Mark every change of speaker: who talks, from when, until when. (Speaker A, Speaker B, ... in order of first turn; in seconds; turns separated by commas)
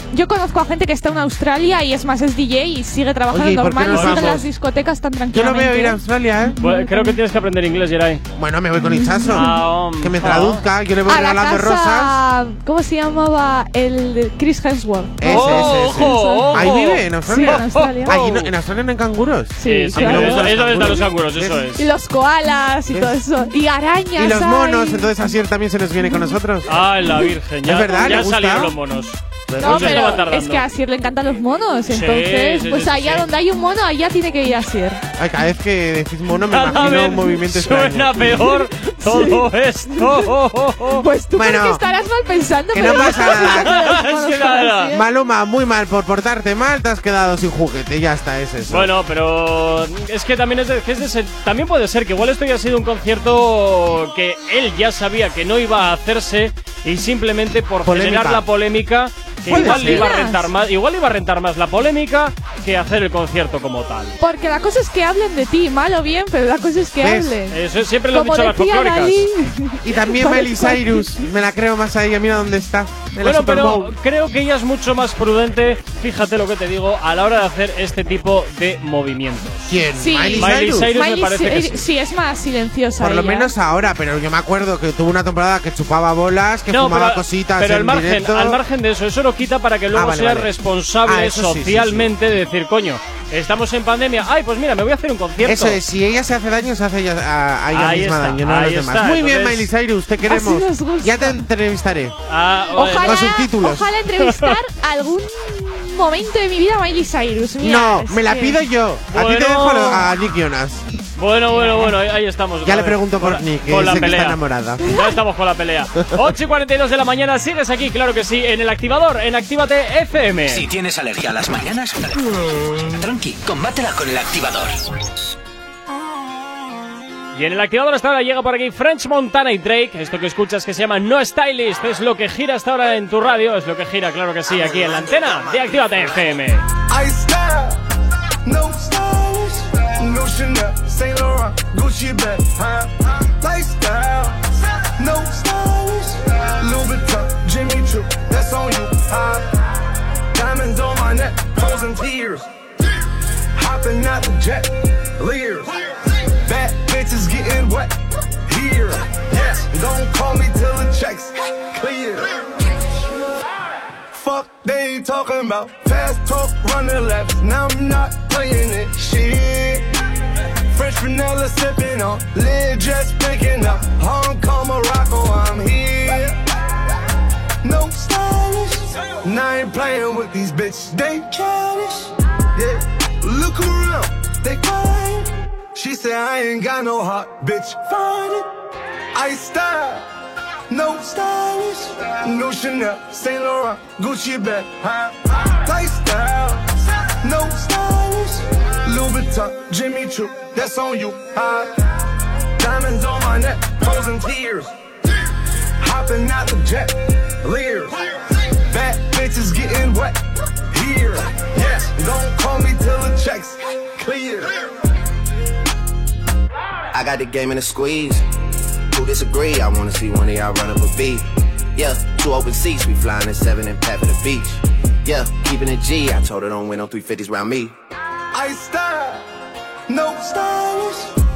Speaker A: 0.1-6.0, Speaker B: 3.3-4.5, Speaker C: 3.9-4.4, Speaker B: 5.3-6.6, Speaker A: 6.6-7.2, Speaker C: 6.6-8.2, Speaker B: 8.3-12.2, Speaker A: 8.8-9.4, Speaker C: 9.3-10.6, Speaker A: 11.1-16.6, Speaker B: 15.2-21.6, Speaker C: 15.2-18.5, Speaker A: 17.2-18.1, Speaker A: 19.6-21.0, Speaker C: 19.6-21.9, Speaker A: 21.8-25.0, Speaker B: 22.9-23.2, Speaker B: 24.1-26.7, Speaker C: 26.7-30.7, Speaker B: 27.6-28.7, Speaker B: 29.5-30.2, Speaker A: 29.6-35.0, Speaker C: 31.9-33.3, Speaker B: 35.2-38.3, Speaker C: 36.5-41.0, Speaker A: 39.0-40.2, Speaker A: 41.0-45.0, Speaker B: 41.4-41.8, Speaker B: 42.7-43.9, Speaker C: 43.0-44.9, Speaker B: 44.9-48.9, Speaker C: 48.7-64.2, Speaker B: 57.8-58.4, Speaker B: 59.5-60.1, Speaker A: 59.5-60.5, Speaker A: 64.2-67.6, Speaker B: 67.0-67.3, Speaker C: 67.5-69.2, Speaker A: 68.1-71.1, Speaker B: 69.8-73.9, Speaker C: 73.2-79.8, Speaker B: 79.7-81.0, Speaker A: 80.0-83.5, Speaker C: 80.3-81.8, Speaker B: 83.0-88.6, Speaker C: 86.7-95.8, Speaker B: 89.9-92.1, Speaker B: 95.4-102.1, Speaker C: 97.7-99.7, Speaker A: 100.3-101.3, Speaker C: 102.3-103.3, Speaker A: 102.7-108.6, Speaker B: 102.9-103.9, Speaker C: 104.2-104.6, Speaker B: 107.6-111.0, Speaker C: 109.1-110.1, Speaker C: 111.2-120.6, Speaker B: 111.5-111.9, Speaker B: 112.6-114.8, Speaker B: 116.0-116.3, Speaker D: 120.5-124.8, Speaker C: 127.3-136.6, Speaker E: 136.9-137.8, Speaker E: 138.4-149.4, Speaker E: 150.3-152.5, Speaker E: 153.6-155.7, Speaker E: 156.4-157.9, Speaker E: 158.5-162.3, Speaker E: 164.1-169.9, Speaker E: 170.7-176.3, Speaker E: 177.6-181.8, Speaker E: 182.5-188.4, Speaker E: 189.1-190.0, Speaker E: 190.7-201.7, Speaker E: 202.6-204.7, Speaker E: 205.8-208.0, Speaker E: 208.7-210.2, Speaker E: 210.7-214.6, Speaker F: 216.9-218.2, Speaker F: 218.9-221.2, Speaker F: 221.8-227.7, Speaker E: 228.3-229.2, Speaker E: 229.9-231.1